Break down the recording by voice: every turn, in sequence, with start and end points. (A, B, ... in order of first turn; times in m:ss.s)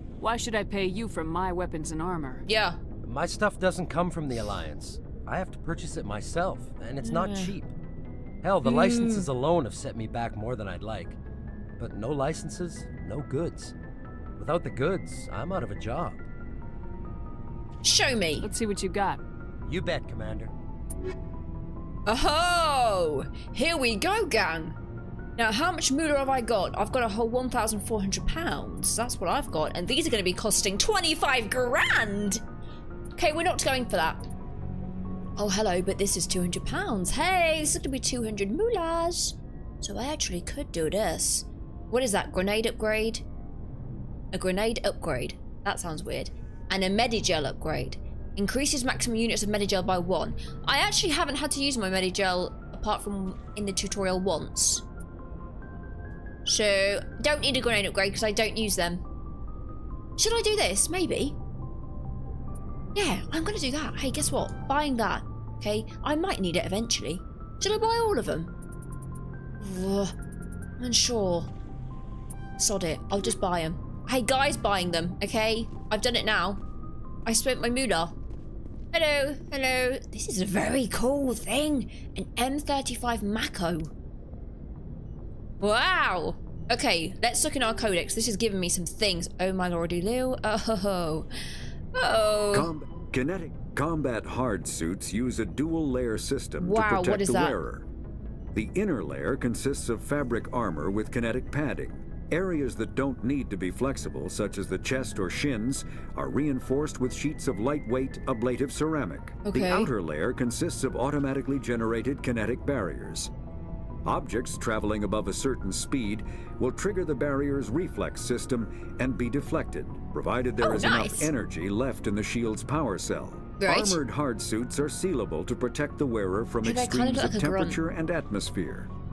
0:00.2-0:02.4 A
0:02.5-0:02.8 B
0:03.0-0:07.7 C
0:07.0-0:07.6 B
0:08.4-0:11.2 C
0:08.6-0:09.3 B
0:11.8-0:13.7 C
0:14.4-0:16.2 C
0:17.8-0:18.5 B
0:18.4-0:19.2 A
0:19.7-0:20.5 C
0:22.1-0:24.8 B
0:25.4-0:32.4 B
0:33.2-0:34.2 B
0:35.4-0:43.2 B
0:44.3-0:54.8 B
0:56.4-0:59.0 B
1:00.2-1:01.4 B
1:03.0-1:08.5 B
1:09.6-1:10.1 B
1:10.8-1:11.5 B
1:12.6-1:16.6 B
1:17.3-1:18.2 B
1:18.9-1:23.9 B
1:25.6-1:31.3 B
1:31.9-1:32.7 B
1:32.5-1:37.9 D
1:36.6-1:37.6 B
1:38.5-1:53.3 D
1:49.5-1:49.9 B
1:54.0-2:08.9 D
2:00.6-2:01.3 B
2:03.6-2:04.0 B
2:06.6-2:07.8 B